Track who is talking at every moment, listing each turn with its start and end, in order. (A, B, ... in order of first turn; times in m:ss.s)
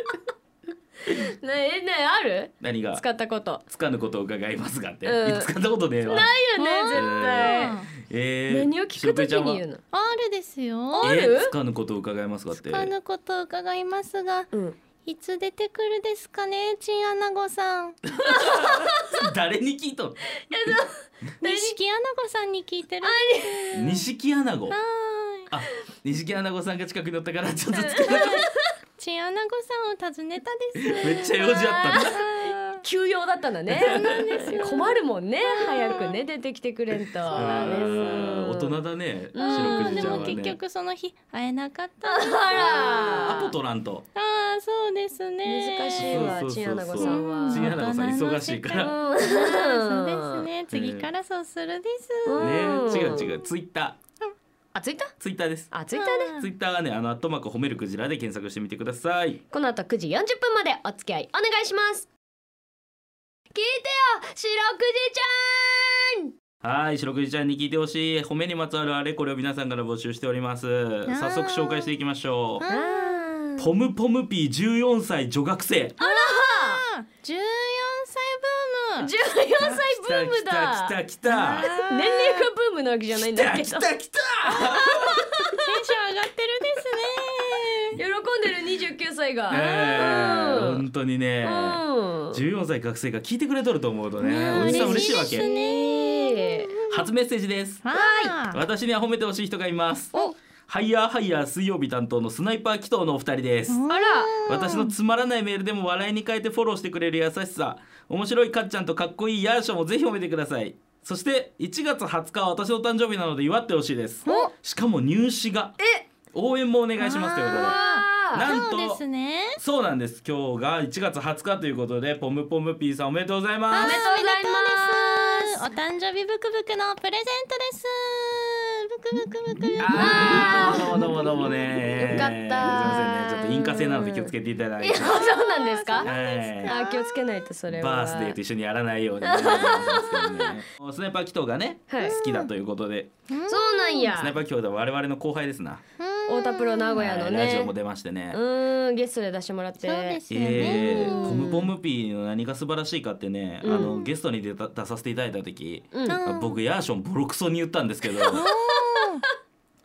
0:01.1-0:03.6 A
0:02.6-0:03.0 B
0:03.7-0:06.3 B
0:05.0-0:07.8 A
0:06.6-0:07.9 C
0:06.9-0:09.6 B
0:08.5-0:09.8 A
0:09.9-0:11.1 C
0:10.9-0:11.5 A
0:11.0-0:12.9 B
0:12.5-0:14.5 C
0:14.5-0:14.8 A
0:15.0-0:18.0 C
0:18.0-0:20.7 B
0:18.3-0:19.0 A
0:20.5-0:21.8 A
0:21.4-0:24.0 C
0:23.0-0:24.0 A
0:23.7-0:24.8 B
0:24.7-0:25.5 C
0:25.5-0:28.5 B
0:27.7-0:28.7 A
0:29.0-0:32.8 C
0:30.8-0:32.2 B
0:31.0-0:38.8 A
0:33.7-0:36.2 C
0:33.9-0:34.5 B
0:37.3-0:40.6 B
0:37.4-0:37.8 C
0:39.3-0:40.4 A
0:39.4-0:43.3 C
0:42.0-0:43.5 A
0:42.8-0:44.0 B
0:44.1-0:46.4 C
0:45.4-0:47.8 A
0:46.0-0:48.9 B
0:47.0-0:53.5 C
0:48.8-0:50.4 A
0:50.7-0:51.1 B
0:52.2-0:53.3 A
0:52.4-0:54.0 B
0:54.7-0:55.1 A
0:55.2-0:55.8 B
0:55.7-0:56.4 A
0:55.9-0:56.5 C
0:56.3-0:59.4 B
0:59.5-1:02.1 A
1:03.5-1:06.3 A
1:06.6-1:12.6 B
1:11.1-1:12.0 C
1:12.6-1:13.2 C
1:12.7-1:13.7 A
1:13.6-1:16.0 B
1:16.0-1:16.8 A
1:16.0-1:19.1 C
1:19.0-1:21.0 A
1:19.6-1:21.7 B
1:21.2-1:22.5 C
1:21.6-1:23.9 A
1:23.1-1:25.5 B
1:24.4-1:25.6 A
1:25.6-1:27.9 C
1:28.0-1:30.8 A
1:29.5-1:35.5 B
1:31.4-1:32.4 A
1:34.2-1:37.1 C
1:34.5-1:36.7 A
1:36.9-1:37.9 B
1:37.8-1:38.6 C
1:37.9-1:38.4 A
1:38.5-1:43.8 B
1:43.7-1:44.9 C
1:43.9-1:44.3 A
1:44.4-1:55.8 B
1:54.2-1:54.5 C
1:54.2-1:54.5 A
1:55.8-1:56.1 A
1:56.3-1:57.8 B
1:57.0-1:59.6 C
1:57.5-1:58.5 A
1:58.3-1:59.0 B
1:59.6-2:04.1 B
2:03.7-2:13.5 C
2:03.8-2:05.6 A
2:09.8-2:15.2 B
2:09.9-2:16.1 A
2:15.0-2:17.1 C
2:16.0-2:16.8 B
2:16.6-2:18.4 A
2:17.7-2:23.1 B
2:19.2-2:20.6 A
2:21.9-2:22.2 A
2:22.0-2:22.5 C
2:23.3-2:24.1 C
2:23.5-2:24.4 A
2:24.1-2:25.8 B
2:26.0-2:27.7 C
2:26.3-2:27.7 A
2:27.0-2:28.4 B
2:28.3-2:31.7 A
2:29.8-2:31.5 C
2:30.3-2:38.4 B
2:33.6-2:34.1 A
2:35.9-2:36.2 A
2:36.0-2:36.6 C
2:38.2-2:39.2 C